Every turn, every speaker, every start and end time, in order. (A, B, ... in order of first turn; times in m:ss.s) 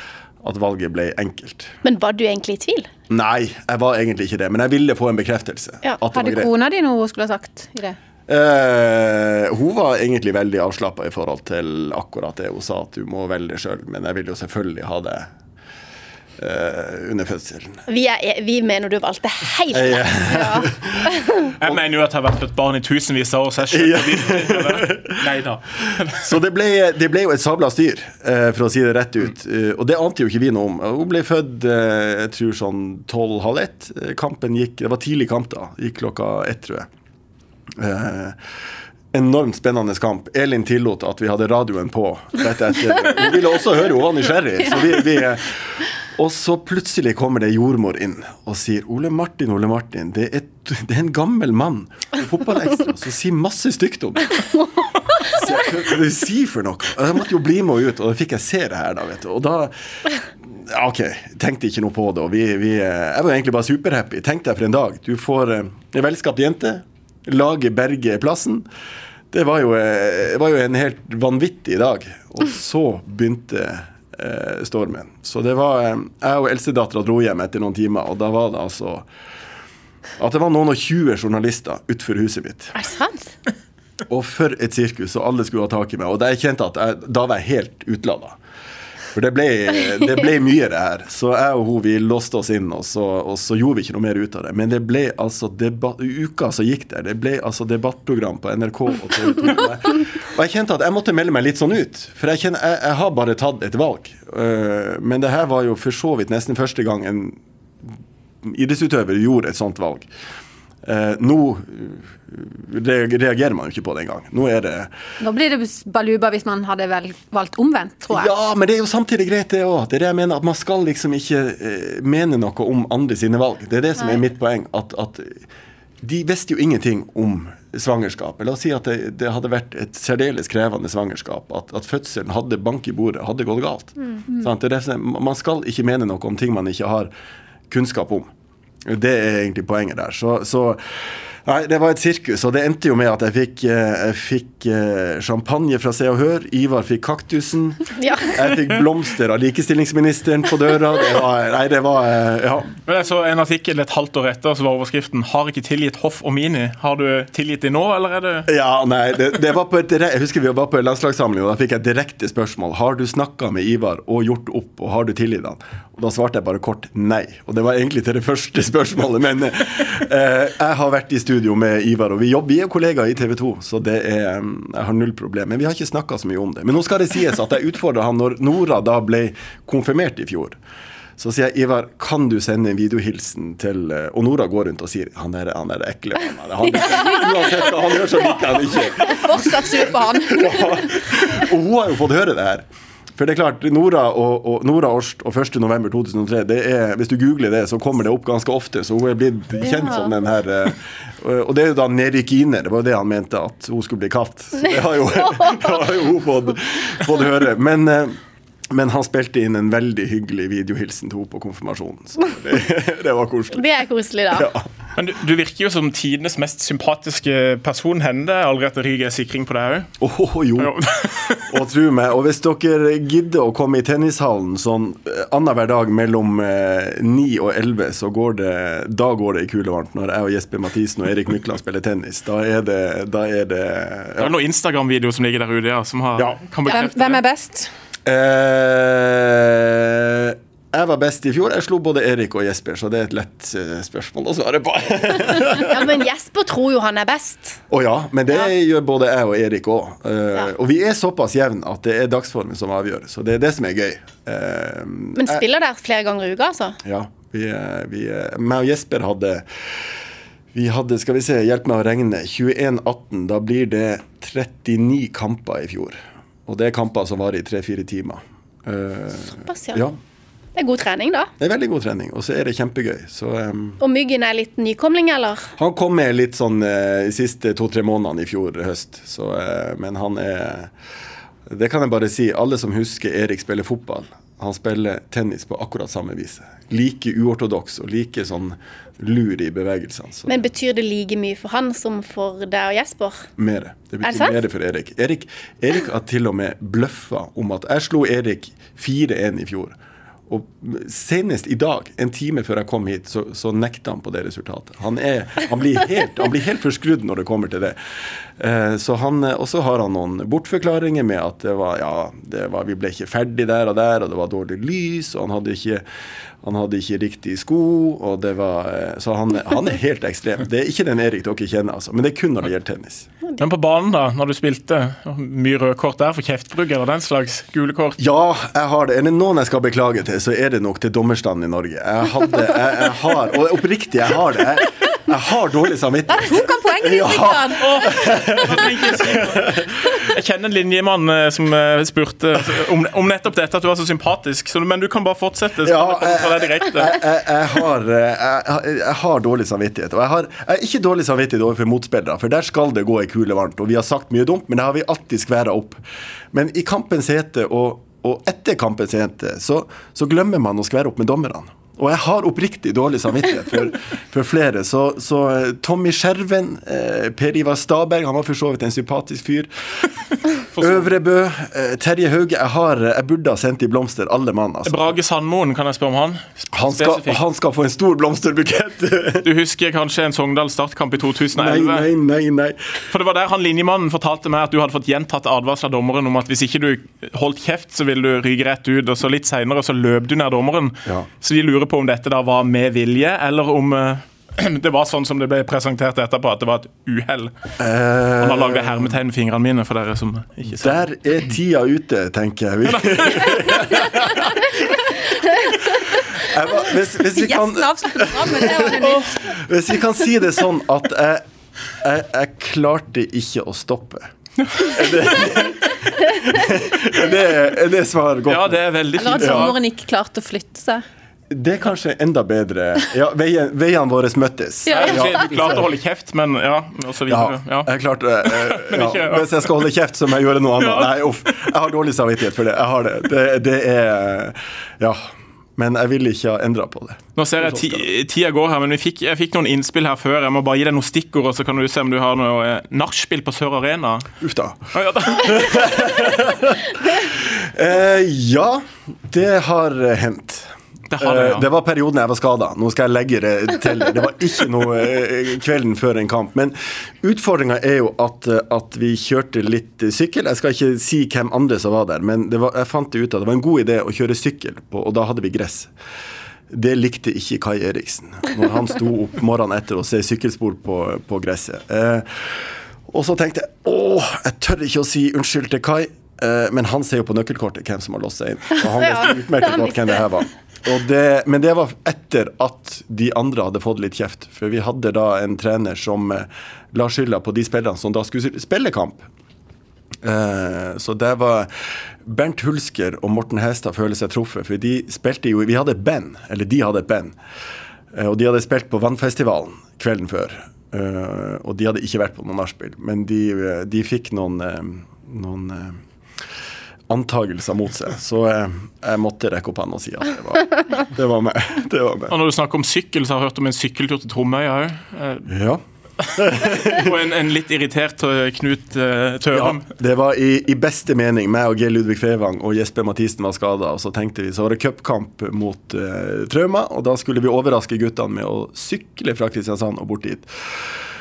0:00.4-0:01.8 A
0:01.8-0:02.9 B
0:03.1-0:06.5 A
0:06.1-0:08.0 C
0:08.3-0:15.3 A
0:16.4-0:17.8 A
0:17.9-0:21.5 B
0:19.7-0:21.8 A
0:21.6-0:26.3 D
0:23.7-0:36.9 A
0:37.8-0:38.4 A
0:39.1-0:54.4 A
0:55.2-1:08.6 A
1:09.3-1:19.0 A
1:20.2-1:22.7 A
1:22.7-1:23.3 B
1:24.1-1:28.4 A
1:29.1-1:50.1 A
1:50.8-1:54.9 A
1:55.2-1:58.3 C
1:58.1-2:05.4 A
2:06.0-2:17.1 A
2:17.7-2:18.3 A
2:18.8-2:32.7 A
2:28.0-2:28.4 B
2:32.8-2:38.5 D
2:38.5-3:00.6 A
3:01.2-3:12.6 A
3:06.8-3:07.3 B
3:09.0-3:10.8 C
3:13.2-3:28.2 A
3:19.6-3:20.1 C
3:25.2-3:25.8 B
3:28.7-3:33.6 A
3:33.5-3:34.5 B
3:34.3-3:34.7 A
3:35.0-3:39.9 D
3:40.0-3:40.8 A
3:40.6-3:41.5 D
3:41.5-3:54.3 A
3:54.2-3:57.2 D
3:56.7-3:57.7 C
3:58.0-4:05.9 A
4:05.4-4:07.6 B
4:07.7-4:15.4 A
4:15.2-4:16.8 B
4:16.8-4:20.0 A
4:20.5-4:30.0 A
4:29.4-4:29.8 B
4:30.5-4:31.3 B
4:31.4-4:33.8 A
4:33.8-4:35.5 B
4:35.6-4:40.7 A
4:41.5-4:50.4 A
4:50.3-4:53.3 B
4:53.4-4:59.8 A
4:54.0-4:54.3 B
5:00.3-5:07.8 A
5:08.4-5:15.8 A
5:16.4-5:23.1 A
5:23.4-5:28.0 D
5:28.0-5:40.0 A
5:36.1-5:37.8 C
5:37.5-5:47.0 D
5:45.6-5:55.8 A
5:56.3-6:09.5 A
6:10.5-6:10.8 D
6:10.6-6:14.8 A
6:14.6-6:17.2 D
6:16.5-6:19.3 A
6:19.2-6:21.9 D
6:21.4-6:22.7 A
6:22.9-6:37.3 D
6:37.6-6:39.0 A
6:38.2-6:40.8 D
6:40.5-6:44.9 A
6:42.6-6:44.4 D
6:45.7-6:51.2 A
6:47.0-6:49.2 C
6:51.8-6:59.5 A
6:54.4-6:54.9 D
6:58.2-6:59.6 D
6:59.0-7:00.8 C
7:01.3-7:05.7 A
7:04.7-7:09.5 D
7:04.7-7:05.4 C
7:07.1-7:17.8 A
7:10.6-7:10.9 D
7:17.2-7:24.1 D
7:24.2-7:45.7 A
7:24.7-7:26.2 D
7:30.9-7:31.5 D
7:46.5-8:09.0 A
7:58.8-8:00.0 B
8:10.0-8:11.5 A
8:12.0-8:17.2 A
8:17.9-8:25.8 A
8:26.9-8:32.2 A
8:32.1-8:35.3 D
8:35.3-8:35.6 A
8:36.0-8:39.6 D
8:36.1-8:36.9 A
8:39.3-8:50.7 A